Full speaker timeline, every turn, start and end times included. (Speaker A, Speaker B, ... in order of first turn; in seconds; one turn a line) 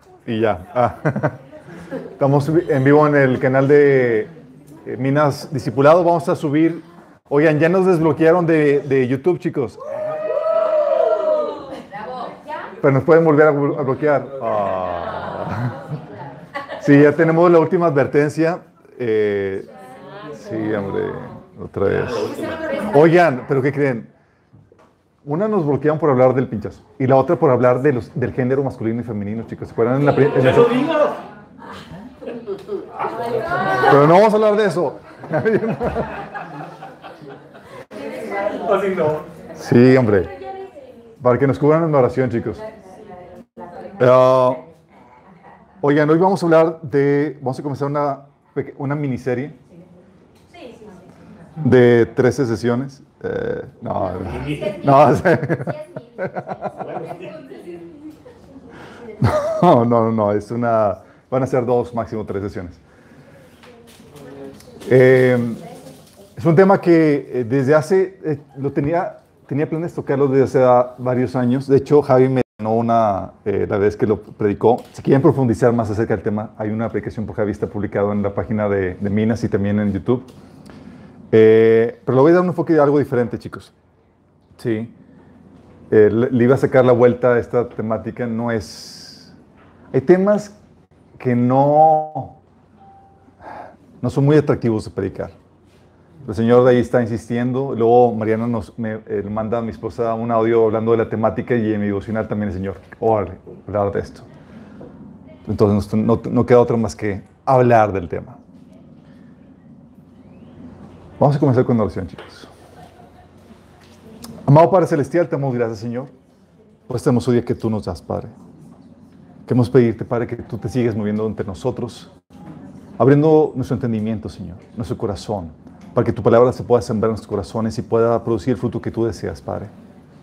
Speaker A: 0.3-1.4
Speaker A: 2.2-4.3
Speaker A: 4.9-9.9
Speaker A: 12.8-15.8
Speaker A: 16.8-19.7
Speaker A: 20.3-24.1
Speaker B: 22.2-22.8
Speaker A: 25.2-31.0
Speaker B: 30.7-31.2
Speaker B: 33.4-33.8
Speaker A: 33.7-36.2
Speaker B: 38.0-39.3
Speaker A: 39.6-40.4
Speaker A: 41.2-42.6
Speaker B: 43.6-43.9
Speaker A: 44.0-44.6
Speaker A: 45.8-49.6
Speaker B: 50.5-50.9
Speaker A: 51.6-56.8
Speaker B: 54.3-55.1
Speaker B: 56.7-57.8
Speaker A: 59.2-62.8
Speaker A: 64.8-65.7
Speaker A: 66.4-80.3
Speaker A: 81.3-83.7
Speaker A: 84.6-84.9
Speaker A: 85.9-89.3
Speaker A: 89.9-90.5
Speaker A: 91.2-92.4
Speaker A: 94.0-95.4
Speaker A: 96.2-104.3
Speaker A: 105.5-108.4
Speaker A: 111.2-112.5
Speaker A: 114.5-116.1
Speaker A: 116.9-118.3
Speaker A: 119.5-122.1
Speaker A: 123.0-129.7